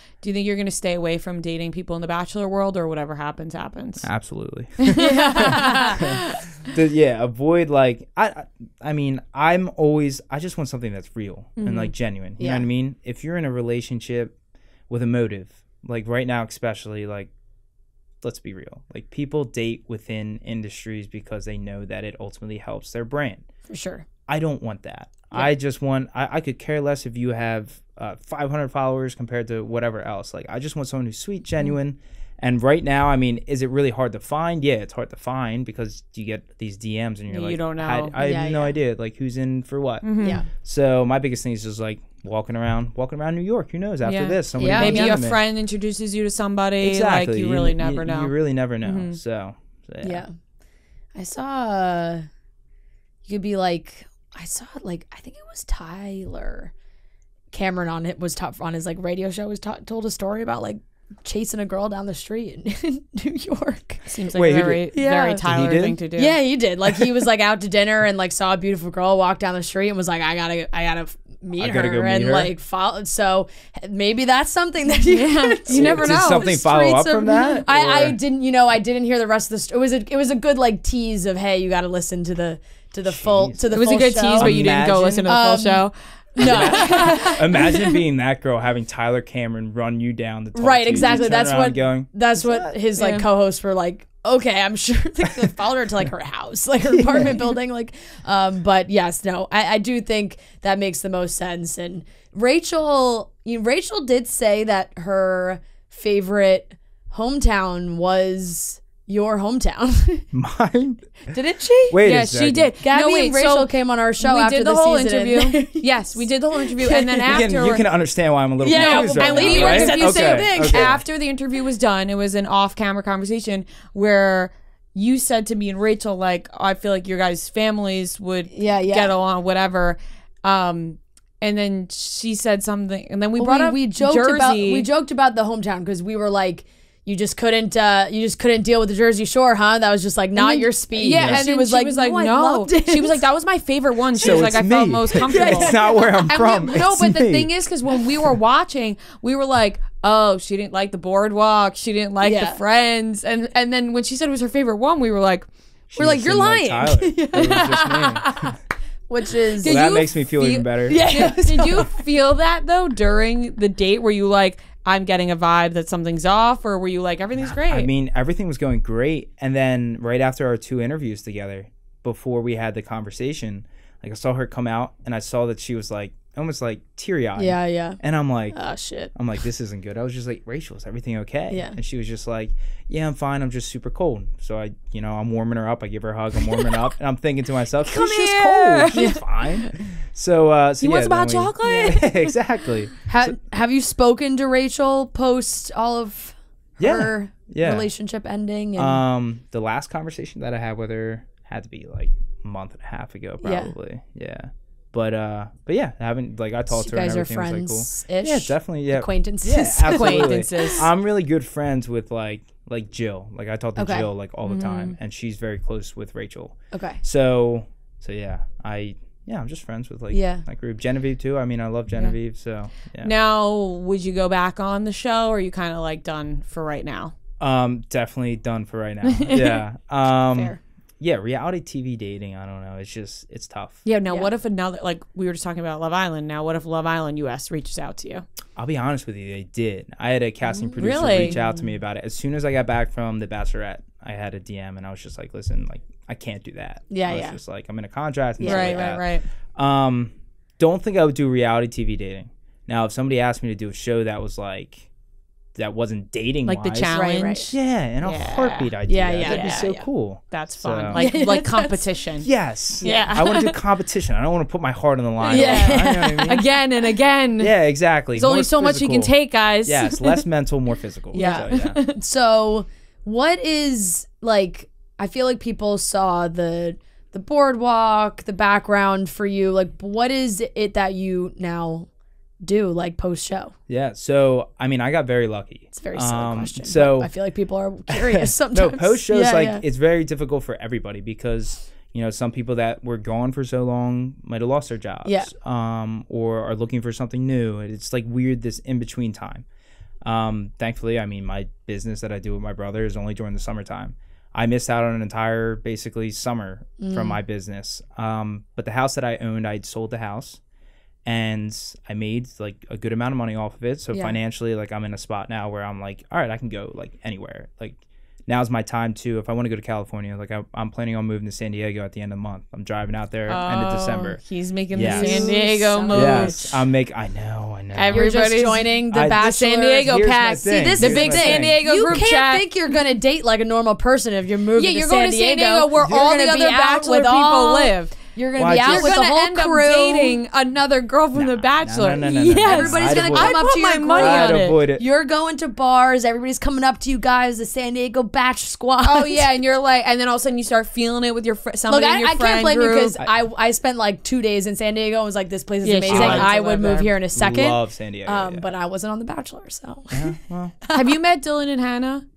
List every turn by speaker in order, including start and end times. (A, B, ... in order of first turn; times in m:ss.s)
0:00.2-0:04.1 A
0:04.0-0:14.4 B
0:04.8-0:06.4 A
0:05.0-0:06.1 C
0:11.6-0:11.9 A
0:12.4-0:12.6 C
0:14.9-0:17.3 B
0:18.2-0:23.5 B
0:23.7-0:24.0 C
0:24.3-0:45.4 B
0:37.3-0:38.1 A
0:38.2-0:38.8 C
0:40.0-0:40.4 A
0:40.2-0:40.5 C
0:44.0-0:49.2 A
0:44.6-0:45.2 C
0:46.8-0:50.2 B
0:50.0-0:50.3 C
0:51.2-0:52.3 C
0:53.3-0:56.7 C
0:57.5-1:04.1 C
1:04.1-1:06.4 A
1:04.3-1:04.9 B
1:04.9-1:05.4 C
1:05.4-1:06.0 B
1:06.1-1:24.6 C
1:11.6-1:12.5 B
1:15.0-1:16.5 A
1:15.7-1:18.2 B
1:23.1-1:23.8 B
1:23.7-1:27.6 A
1:24.4-1:25.3 B
1:25.3-1:28.0 C
1:26.4-1:32.7 B
1:30.5-1:50.3 C
1:33.0-1:33.3 A
1:36.9-1:37.4 B
1:50.3-1:51.3 B
1:51.3-1:52.0 C
1:51.9-1:52.7 B
1:52.0-1:57.9 A
1:52.8-1:57.5 C
1:57.3-2:01.0 B
1:58.6-2:01.0 C
1:58.7-2:14.9 A
2:08.5-2:09.1 C
2:13.4-2:23.2 C
2:20.4-2:35.5 A
2:21.2-2:21.4 B
2:24.2-2:27.5 B
2:25.1-2:26.4 C
2:32.2-2:32.6 C
2:35.9-2:38.6 B
2:36.0-2:38.5 C
2:37.3-2:37.8 A
2:39.1-2:39.8 C
2:39.6-2:47.9 A
2:39.6-2:41.3 B
2:40.9-2:41.9 C
2:47.4-2:58.6 B
2:57.4-2:58.0 C
2:58.5-2:59.1 C
2:59.1-3:13.4 B
3:01.5-3:01.8 C
3:07.8-3:09.8 A
3:10.8-3:12.4 A
3:13.1-3:19.0 C
3:16.8-3:17.9 B
3:18.8-3:43.1 B
3:23.4-3:23.7 C
3:26.7-3:30.9 C
3:29.8-3:30.9 A
3:33.8-3:34.1 C
3:34.4-3:35.0 A
3:36.7-3:37.0 C
3:40.1-3:40.4 C
3:43.0-3:47.1 A
3:47.4-3:53.8 B
3:49.0-3:49.6 A
3:50.3-3:50.6 C
3:53.8-3:58.2 A
3:58.6-4:14.9 B
4:00.6-4:01.6 C
4:00.8-4:01.4 A
4:06.9-4:07.4 C
4:08.4-4:08.9 C
4:08.4-4:09.3 A
4:15.6-4:16.9 B
4:16.5-4:19.7 A
4:16.9-4:17.5 C
4:17.5-4:21.1 B
4:18.9-4:19.9 C
4:20.3-4:22.3 A
4:20.9-4:21.8 C
4:22.2-4:26.4 B
4:22.8-4:23.2 C
4:22.8-4:23.6 A
4:25.2-4:27.6 A
4:25.3-4:26.5 C
4:27.4-4:31.8 B
4:28.2-4:30.2 A
4:31.1-4:32.0 A
4:31.2-4:41.9 C
4:42.4-4:43.5 C
4:43.7-4:47.1 B
4:45.7-4:49.6 C
4:47.9-4:59.4 B
4:55.0-4:55.3 C
5:00.0-5:10.4 B
5:06.8-5:07.2 C
5:11.0-5:24.2 B
5:13.9-5:14.2 C
5:23.3-5:26.5 A
5:24.7-5:26.6 C
5:24.7-5:25.4 B
5:25.9-5:28.1 B
5:27.7-5:32.5 A
5:27.9-5:40.2 C
5:28.9-5:31.6 B
5:34.6-5:38.0 A
5:38.4-5:39.0 B
5:38.5-5:44.6 A
5:41.1-5:44.8 B
5:42.0-5:49.3 C
5:48.8-5:53.0 A
5:51.7-6:01.0 C
5:55.6-5:56.9 A
5:55.8-5:56.3 B
5:57.1-5:58.5 B
5:59.9-6:00.6 B
6:00.7-6:02.1 A